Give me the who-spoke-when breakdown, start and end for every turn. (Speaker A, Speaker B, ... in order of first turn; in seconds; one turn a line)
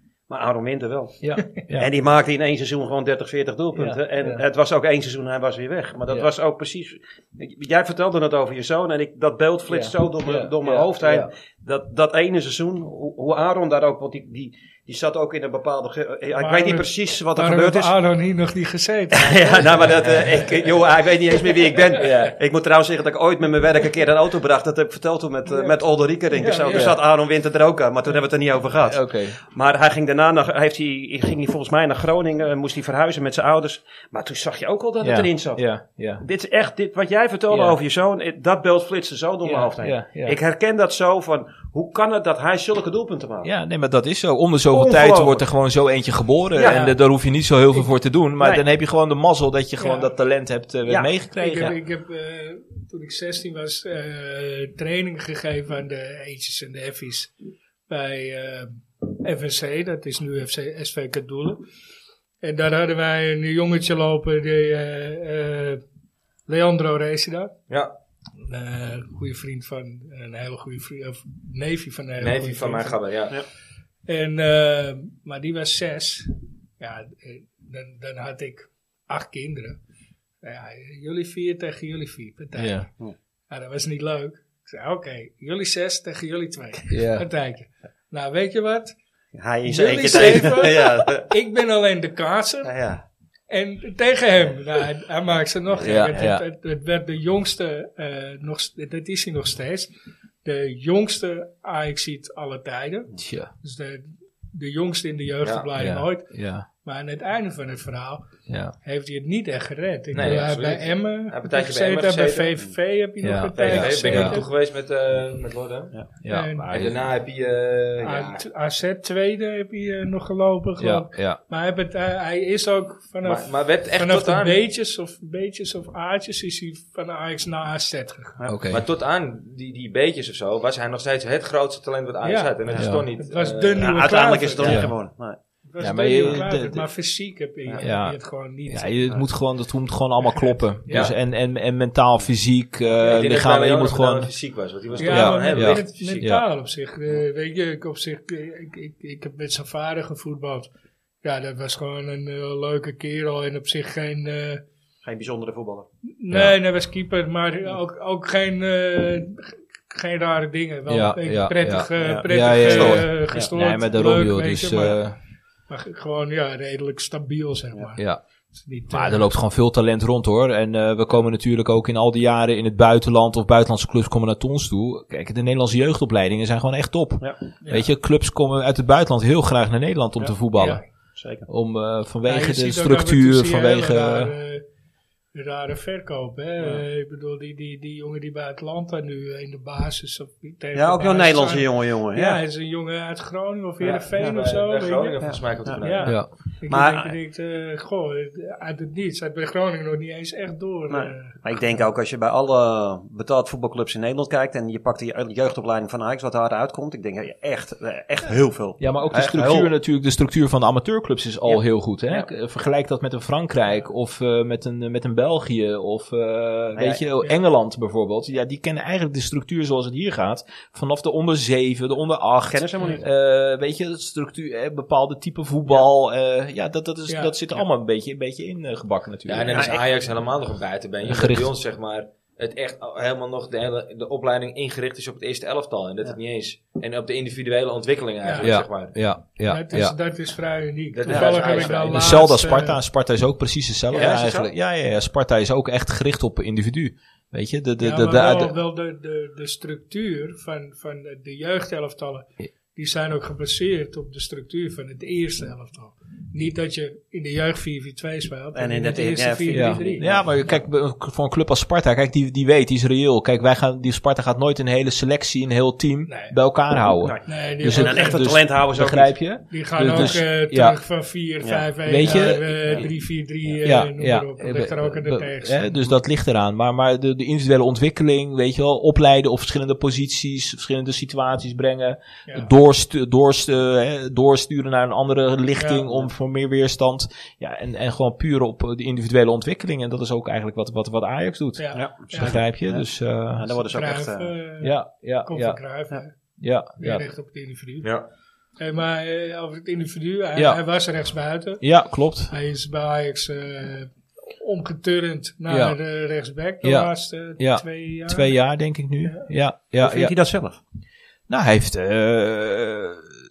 Speaker A: 0.3-1.2
Speaker B: 1.2-1.9
Speaker A: 1.8-17.9
Speaker B: 3.7-4.4
Speaker B: 9.7-11.3
Speaker C: 16.4-19.7
Speaker A: 19.1-35.6
Speaker B: 21.9-22.3
Speaker C: 26.3-26.8
Speaker B: 26.4-27.0
Speaker B: 28.8-29.4
Speaker B: 35.0-36.2
Speaker A: 36.2-43.5
Speaker B: 37.5-37.8
Speaker B: 39.4-40.4
Speaker B: 43.4-51.7
Speaker A: 44.7-45.5
Speaker A: 46.5-46.9
Speaker C: 46.6-46.9
Speaker A: 48.4-48.6
Speaker C: 49.8-50.1
Speaker A: 50.9-51.7
Speaker C: 51.3-57.3
Speaker C: 57.9-61.6
Speaker C: 62.4-65.8
Speaker C: 66.5-67.5
Speaker D: 67.7-67.9
Speaker C: 68.4-73.0
Speaker D: 72.2-73.4
Speaker C: 74.1-79.8
Speaker C: 80.4-82.9
Speaker B: 82.6-82.8
Speaker C: 83.5-88.9
Speaker B: 86.9-87.2
Speaker A: 89.3-91.3
Speaker C: 89.7-92.7
Speaker B: 90.1-90.5
Speaker A: 92.6-93.0
Speaker C: 93.5-99.9
Speaker B: 95.8-96.4
Speaker C: 100.4-108.3
Speaker B: 103.2-103.5
Speaker D: 105.4-105.7
Speaker B: 105.8-106.7
Speaker B: 108.5-108.7
Speaker C: 108.8-114.5
Speaker D: 110.1-112.6
Speaker B: 113.2-114.4
Speaker D: 113.5-116.0
Speaker B: 116.2-117.0
Speaker C: 116.3-116.7
Speaker D: 116.7-118.5
Speaker C: 118.0-128.4
Speaker B: 120.8-121.4
Speaker D: 123.2-124.6
Speaker B: 128.4-128.8
Speaker D: 128.7-133.9
Speaker C: 132.2-134.9
Speaker B: 132.8-133.1
Speaker A: 133.8-135.4
Speaker B: 134.6-134.9
Speaker C: 135.7-139.2
Speaker B: 135.8-136.9
Speaker B: 137.8-144.3
Speaker C: 140.2-141.0
Speaker D: 140.9-141.1
Speaker D: 143.0-146.3
Speaker C: 145.0-150.7
Speaker B: 145.1-146.4
Speaker C: 151.2-154.6
Speaker A: 155.0-155.9
Speaker C: 156.2-165.1
Speaker B: 156.3-156.6
Speaker B: 160.9-165.2
Speaker A: 162.0-163.5
Speaker C: 165.7-168.0
Speaker C: 168.6-169.2
Speaker B: 168.9-180.8
Speaker C: 177.6-177.9
Speaker C: 180.6-180.8
Speaker A: 181.2-181.4
Speaker B: 181.5-184.3
Speaker C: 182.2-184.6
Speaker C: 185.3-195.2
Speaker A: 190.7-192.4
Speaker D: 193.8-196.1
Speaker A: 195.2-197.2
Speaker C: 195.8-201.3
Speaker A: 200.9-209.7
Speaker B: 208.8-229.7
Speaker A: 211.4-212.3
Speaker A: 216.7-217.0
Speaker A: 222.5-223.0
Speaker C: 227.1-227.6
Speaker D: 229.3-238.9
Speaker A: 229.4-229.8
Speaker B: 231.0-231.5
Speaker C: 238.2-238.5
Speaker B: 238.4-239.9
Speaker C: 239.4-242.8
Speaker D: 240.9-242.1
Speaker A: 241.1-241.7
Speaker B: 241.5-248.6
Speaker D: 243.9-244.5
Speaker C: 247.8-260.5
Speaker A: 258.5-260.5
Speaker B: 259.5-270.8
Speaker C: 266.1-266.3
Speaker A: 267.0-269.3
Speaker C: 267.3-268.3
Speaker C: 269.5-275.7
Speaker A: 269.9-270.2
Speaker A: 271.4-272.9
Speaker B: 271.8-272.9
Speaker B: 273.6-293.6
Speaker C: 285.6-285.8
Speaker C: 291.6-292.4
Speaker A: 291.7-294.3
Speaker C: 293.6-294.7
Speaker B: 294.6-295.6
Speaker C: 295.2-296.1
Speaker B: 296.4-297.0
Speaker C: 296.8-297.9
Speaker D: 297.8-298.1
Speaker C: 298.6-301.6
Speaker B: 300.4-300.6
Speaker B: 301.6-302.3
Speaker C: 302.3-308.4
Speaker B: 305.5-305.8
Speaker B: 306.6-310.1
Speaker A: 309.8-310.6
Speaker B: 311.3-313.0